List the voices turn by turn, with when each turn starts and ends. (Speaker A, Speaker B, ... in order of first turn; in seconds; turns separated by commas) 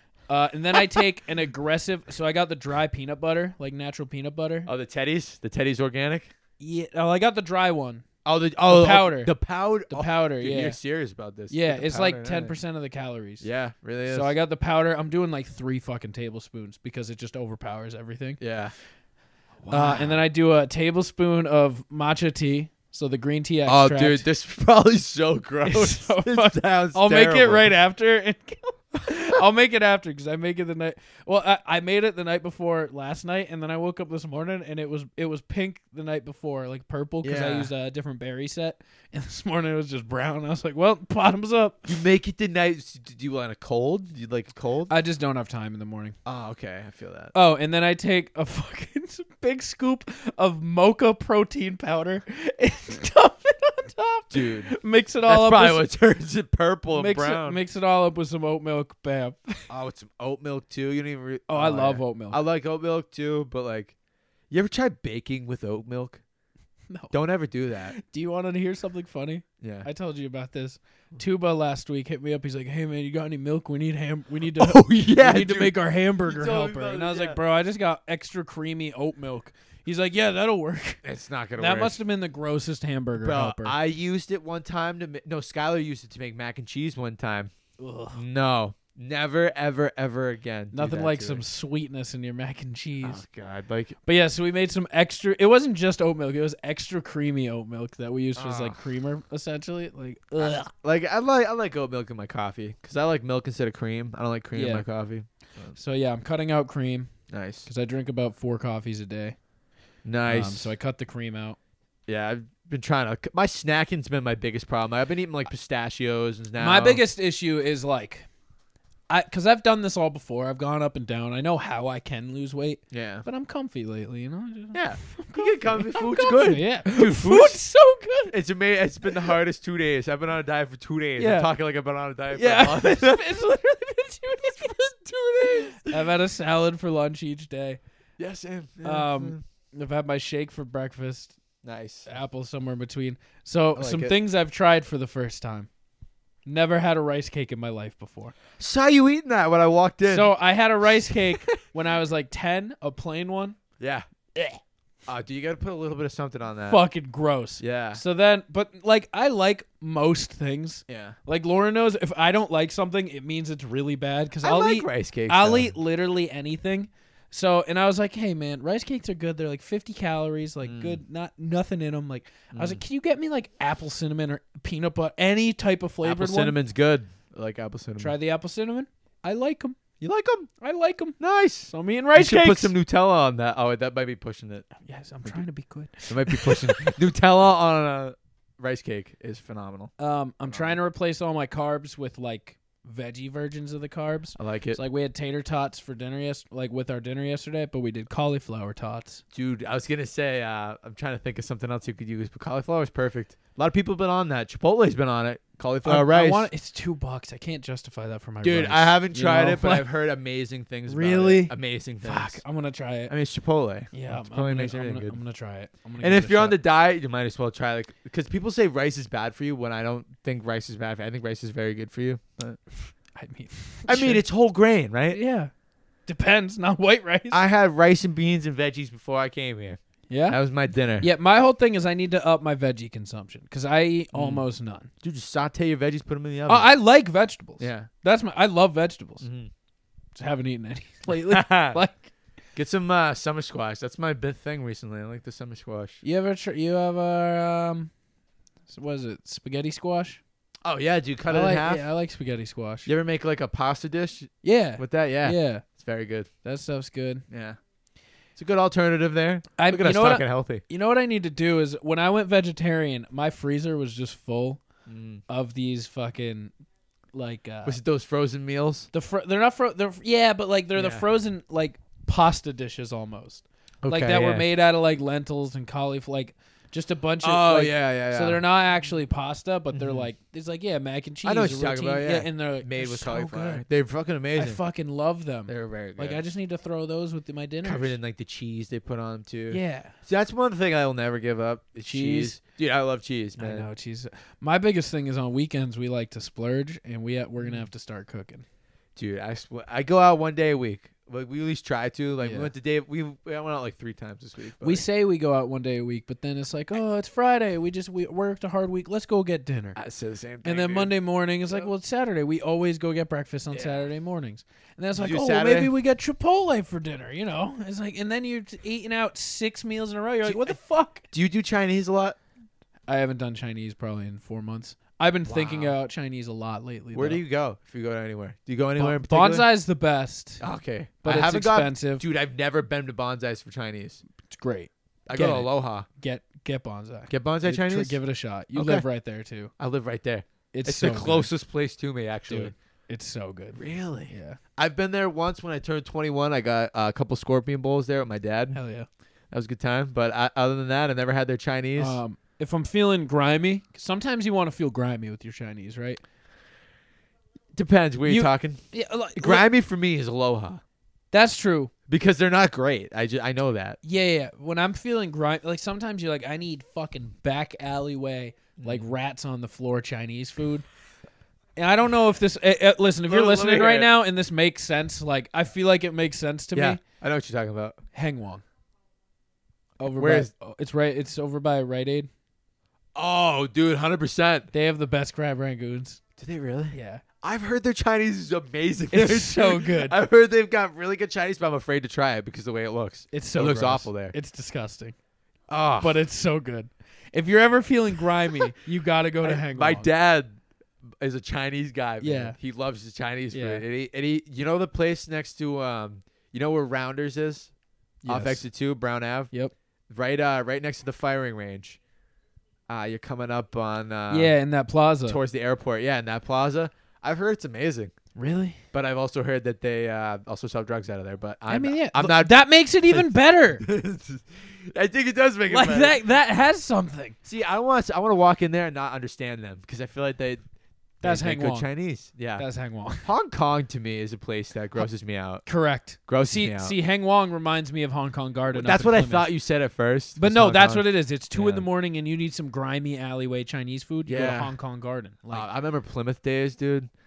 Speaker A: 0.3-4.7, Speaker B: 4.7-6.3, Speaker A: 6.6-8.1, Speaker B: 8.2-12.6, Speaker A: 8.7-9.3, Speaker A: 9.9-10.8, Speaker A: 11.5-13.5, Speaker B: 13.4-14.3, Speaker A: 14.1-18.4, Speaker B: 18.4-18.8, Speaker B: 19.6-20.2, Speaker A: 19.7-24.3, Speaker B: 23.7-27.7, Speaker A: 25.6-41.9, Speaker B: 37.2-37.7, Speaker B: 41.9-44.9, Speaker A: 44.9-46.2, Speaker B: 46.2-47.3, Speaker A: 47.3-55.9, Speaker B: 54.3-54.7, Speaker B: 55.3-57.6, Speaker A: 56.9-59.7, Speaker B: 59.7-64.0, Speaker A: 61.5-62.4, Speaker B: 64.5-66.2, Speaker A: 66.9-67.2, Speaker B: 67.1-68.0, Speaker A: 67.9-81.0, Speaker B: 69.6-69.9, Speaker B: 74.5-77.4, Speaker B: 81.0-82.0, Speaker A: 81.6-83.8, Speaker B: 83.2-87.5, Speaker A: 87.8-88.2, Speaker B: 88.1-91.4, Speaker A: 90.7-93.2, Speaker B: 93.0-94.0, Speaker A: 94.1-100.7, Speaker B: 98.4-98.8, Speaker B: 100.4-105.8, Speaker A: 104.5-104.9, Speaker A: 105.8-107.1, Speaker B: 107.3-107.7, Speaker A: 107.7-109.4, Speaker B: 110.0-110.7, Speaker A: 110.3-111.6, Speaker B: 112.1-117.0, Speaker A: 116.6-118.3, Speaker A: 119.1-128.4, Speaker B: 122.9-123.3, Speaker B: 124.7-127.6, Speaker B: 128.3-133.3, Speaker A: 129.1-129.4, Speaker A: 131.2-131.5, Speaker A: 132.3-137.8, Speaker B: 134.6-136.0, Speaker B: 138.2-139.4, Speaker A: 138.8-141.4, Speaker B: 141.6-142.1, Speaker A: 142.1-145.7, Speaker B: 143.8-144.2, Speaker A: 146.5-148.3, Speaker B: 148.6-150.3, Speaker A: 150.1-153.6, Speaker B: 150.8-151.7, Speaker B: 153.8-154.1, Speaker B: 155.1-156.8, Speaker A: 156.7-176.6, Speaker B: 157.6-158.0, Speaker B: 160.9-161.2, Speaker B: 164.4-165.7, Speaker B: 170.6-171.0, Speaker B: 172.5-172.8, Speaker B: 176.0-178.2, Speaker A: 178.0-179.8, Speaker B: 180.0-180.5, Speaker A: 180.6-182.8, Speaker B: 181.2-184.7, Speaker A: 184.8-187.0, Speaker B: 186.1-189.9, Speaker A: 190.0-199.2, Speaker B: 190.5-190.8, Speaker B: 194.4-194.8, Speaker B: 199.3-206.5, Speaker A: 205.8-209.9, Speaker B: 208.4-212.4, Speaker A: 210.9-213.1, Speaker B: 213.1-215.2, Speaker A: 213.9-216.6, Speaker B: 216.0-222.6, Speaker A: 223.1-224.2, Speaker B: 223.9-225.2, Speaker A: 225.1-225.5, Speaker A: 226.1-227.4, Speaker B: 227.3-231.1, Speaker A: 230.1-230.4, Speaker A: 231.0-234.9, Speaker B: 234.1-234.4, Speaker B: 235.0-236.7, Speaker A: 236.5-239.3, Speaker B: 237.6-237.9, Speaker B: 239.2-239.5, Speaker A: 240.2-242.1, Speaker B: 241.1-241.8, Speaker B: 242.6-246.0, Speaker A: 246.0-247.9, Speaker A: 248.7-250.2, Speaker B: 250.6-251.9, Speaker A: 251.3-252.9, Speaker B: 252.9-256.3, Speaker A: 254.4-255.7, Speaker A: 256.4-257.2, Speaker B: 257.3-257.6, Speaker B: 258.4-260.6, Speaker A: 259.6-264.6, Speaker B: 264.9-265.2, Speaker A: 265.3-266.5, Speaker A: 267.1-267.8, Speaker B: 267.6-268.9, Speaker A: 268.9-283.7, Speaker B: 270.8-271.1, Speaker B: 273.8-274.4, Speaker B: 277.2-278.4, Speaker B: 279.7-280.1, Speaker B: 281.2-284.6, Speaker A: 284.4-288.0, Speaker B: 285.5-286.2, Speaker B: 287.6-293.7, Speaker A: 289.5-290.0, Speaker A: 291.8-292.4, Speaker A: 293.4-298.4, Speaker B: 297.4-297.7, Speaker B: 299.0-304.8, Speaker A: 302.2-302.5, Speaker A: 304.6-309.8, Speaker B: 309.8-310.9, Speaker A: 310.4-321.1, Speaker B: 313.5-313.9, Speaker B: 314.9-315.7, Speaker B: 320.2-320.6, Speaker B: 321.1-322.2, Speaker A: 322.9-327.2, Speaker B: 325.3-325.8, Speaker B: 326.9-329.5, Speaker A: 328.8-330.4, Speaker B: 330.4-334.0, Speaker A: 331.0-332.1, Speaker A: 334.3-339.5, Speaker B: 335.1-335.9, Speaker B: 337.1-338.0, Speaker B: 338.5-338.9, Speaker B: 339.6-342.5, Speaker A: 340.5-341.3, Speaker A: 342.3-344.4, Speaker B: 343.6-348.6, Speaker A: 348.5-348.9, Speaker B: 349.3-352.0, Speaker A: 351.8-356.0, Speaker B: 357.6-358.6, Speaker A: 358.0-359.5, Speaker B: 359.2-360.6, Speaker A: 361.1-361.7, Speaker B: 361.9-363.8, Speaker A: 363.8-370.7, Speaker B: 368.6-368.9, Speaker A: 371.6-376.8, Speaker B: 373.1-373.9, Speaker B: 376.5-377.8, Speaker A: 377.9-378.4, Speaker A: 379.8-382.1, Speaker B: 379.9-380.3, Speaker B: 382.9-384.5, Speaker A: 384.5-386.0, Speaker B: 386.2-394.2, Speaker A: 386.7-387.1, Speaker A: 388.9-390.0, Speaker A: 393.1-394.9, Speaker B: 395.5-395.9, Speaker A: 395.8-399.9, Speaker B: 399.2-407.5, Speaker A: 402.0-402.4, Speaker A: 403.3-403.6, Speaker A: 408.0-408.5, Speaker B: 408.1-409.3, Speaker B: 409.9-411.8, Speaker B: 412.7-414.4, Speaker A: 414.1-415.2, Speaker B: 415.1-417.9, Speaker A: 418.1-418.6, Speaker B: 418.7-426.0, Speaker A: 421.5-423.6, Speaker A: 425.5-427.2, Speaker B: 427.2-430.4, Speaker B: 431.0-432.5, Speaker A: 431.0-431.7, Speaker A: 432.4-433.1, Speaker B: 433.0-435.4, Speaker A: 435.4-439.3, Speaker B: 436.1-436.8, Speaker B: 438.5-441.7, Speaker A: 440.2-445.5, Speaker B: 444.1-444.5, Speaker B: 445.3-446.9